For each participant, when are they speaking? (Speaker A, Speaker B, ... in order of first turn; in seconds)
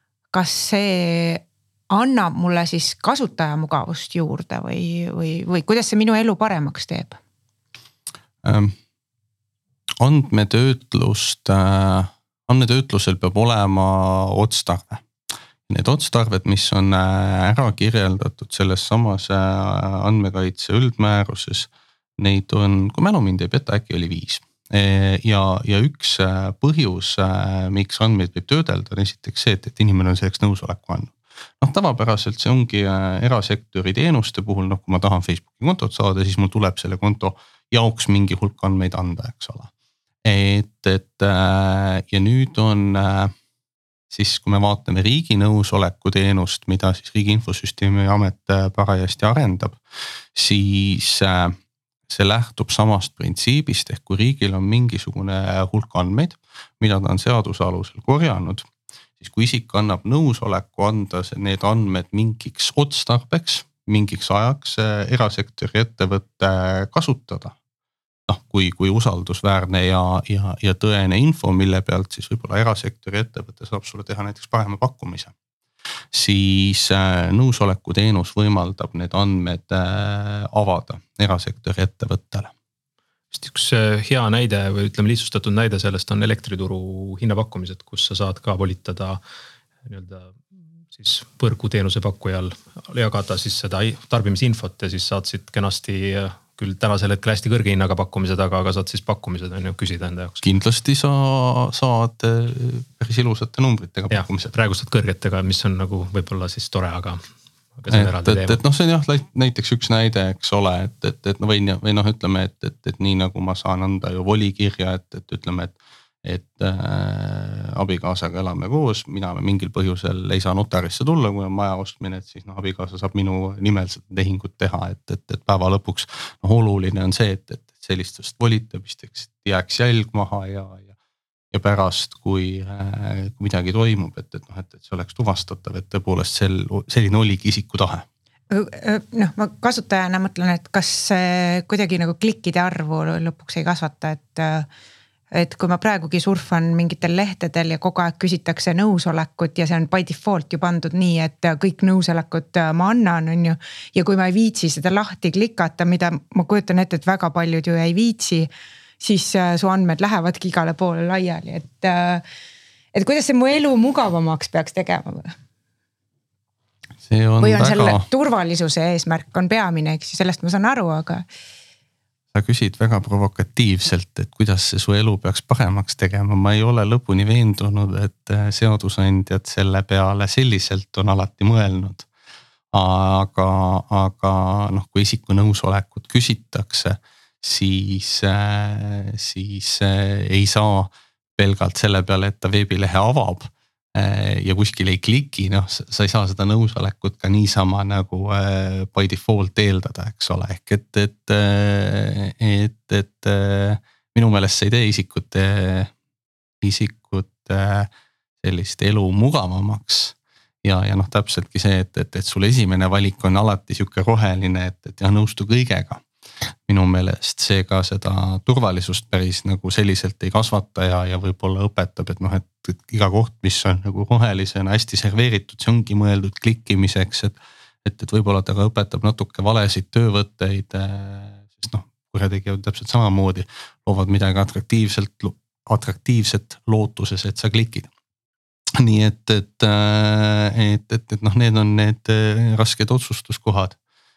Speaker A: 0.3-7.2, 138.5-144.7, 145.3-158.5, 159.0-162.2, 162.9-165.3, 167.4-171.2
Speaker B: 8.4-8.7, 10.0-15.0, 15.7-39.7, 40.2-43.3, 44.1-49.8, 50.3-51.6, 52.1-67.5, 68.3-75.3, 76.1-82.5, 100.4-104.5, 107.9-130.9, 131.5-138.0, 167.0-168.0, 172.3-182.1, 182.7-205.9, 206.6-207.9, 208.4-216.0, 216.7-237.9, 238.8-243.8
Speaker C: 83.3-89.2, 89.8-90.4, 90.9-100.4, 104.1-107.2, 107.8-108.6